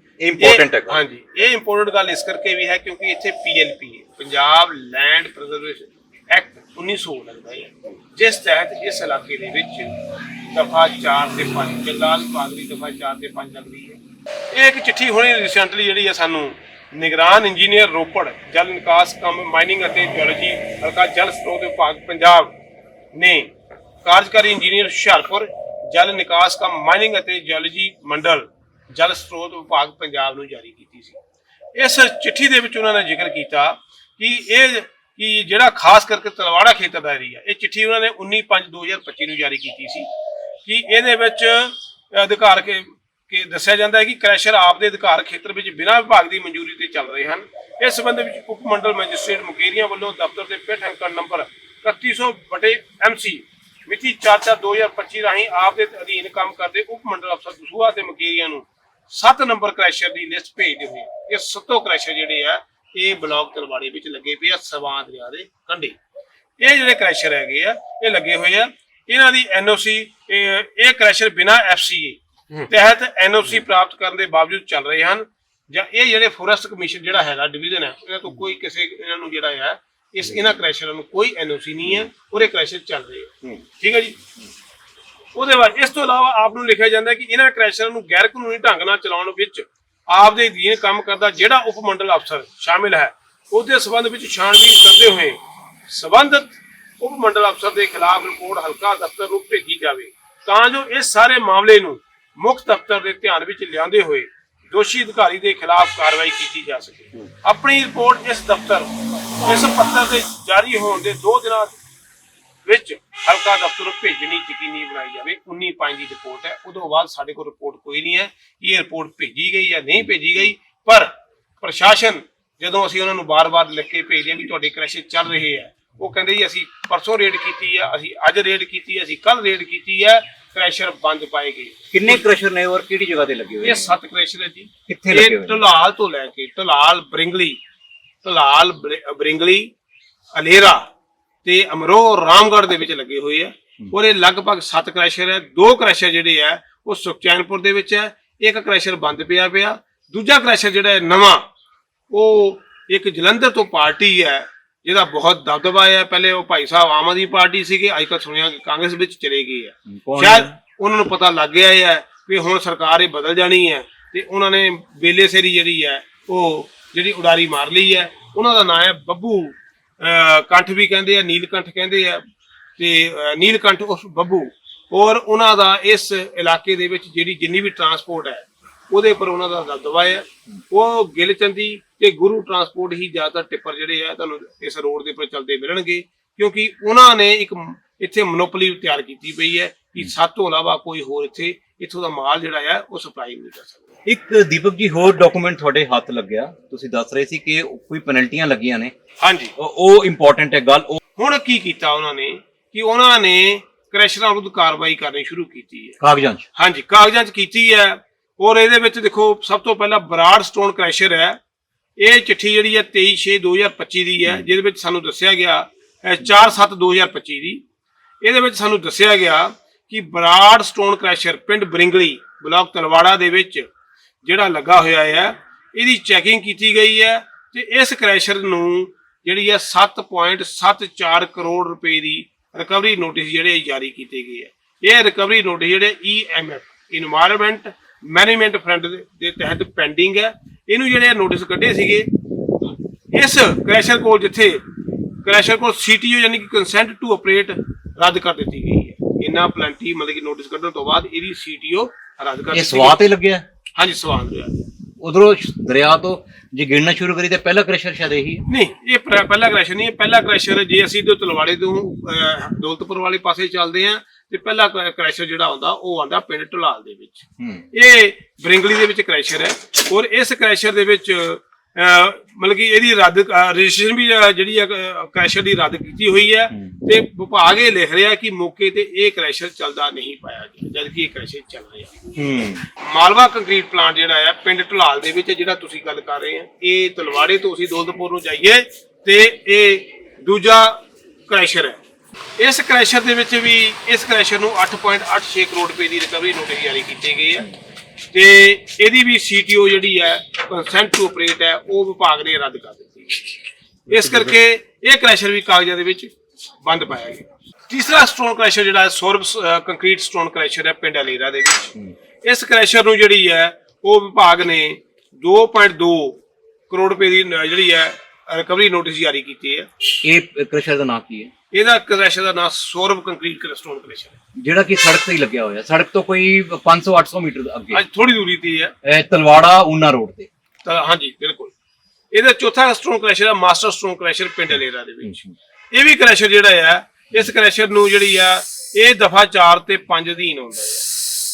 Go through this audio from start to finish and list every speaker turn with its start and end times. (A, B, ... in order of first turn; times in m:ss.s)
0:00.2-0:01.0 A
0:00.4-0:10.0 B
0:10.5-0:14.0 B
0:14.5-0:22.5 B
0:23.1-0:23.5 B
0:24.0-0:31.2 B
0:31.8-0:40.1 B
0:40.6-1:06.0 B
1:06.6-1:24.2 B
1:25.4-1:51.8 B
1:52.7-2:01.1 B
2:01.6-2:12.2 B
2:11.9-2:13.9 A
2:13.6-2:17.6 B
2:14.9-2:15.6 A
2:18.2-2:19.7 B
2:20.4-2:20.8 B
2:21.4-2:31.4 B
2:32.1-2:52.2 B
2:39.9-2:40.6 A
2:52.8-3:13.8 B
3:14.1-3:18.9 A
3:19.2-3:19.5 B
3:19.6-3:21.0 A
3:21.2-3:26.0 B
3:26.0-3:26.5 A
3:26.6-3:31.4 B
3:32.0-3:37.6 B
3:38.2-3:43.7 B
3:44.2-4:02.1 B
4:03.1-4:04.6 B
4:05.2-4:13.0 B
4:12.5-4:13.4 A
4:13.8-4:14.6 B
4:15.0-4:18.4 A
4:18.5-4:41.9 B
4:27.4-4:27.6 A
4:42.2-4:42.7 A
4:42.8-4:51.8 B
4:52.4-4:57.5 B
4:58.1-5:03.3 B
5:03.9-5:06.1 B
5:03.9-5:04.4 A
5:06.7-5:11.7 B
5:12.2-5:19.7 B
5:20.0-5:21.3 A
5:21.5-5:24.2 B
5:24.4-5:27.8 A
5:27.7-5:28.7 B
5:28.8-5:30.3 A
5:30.6-5:31.5 B
5:32.1-5:40.9 B
5:35.0-5:35.3 A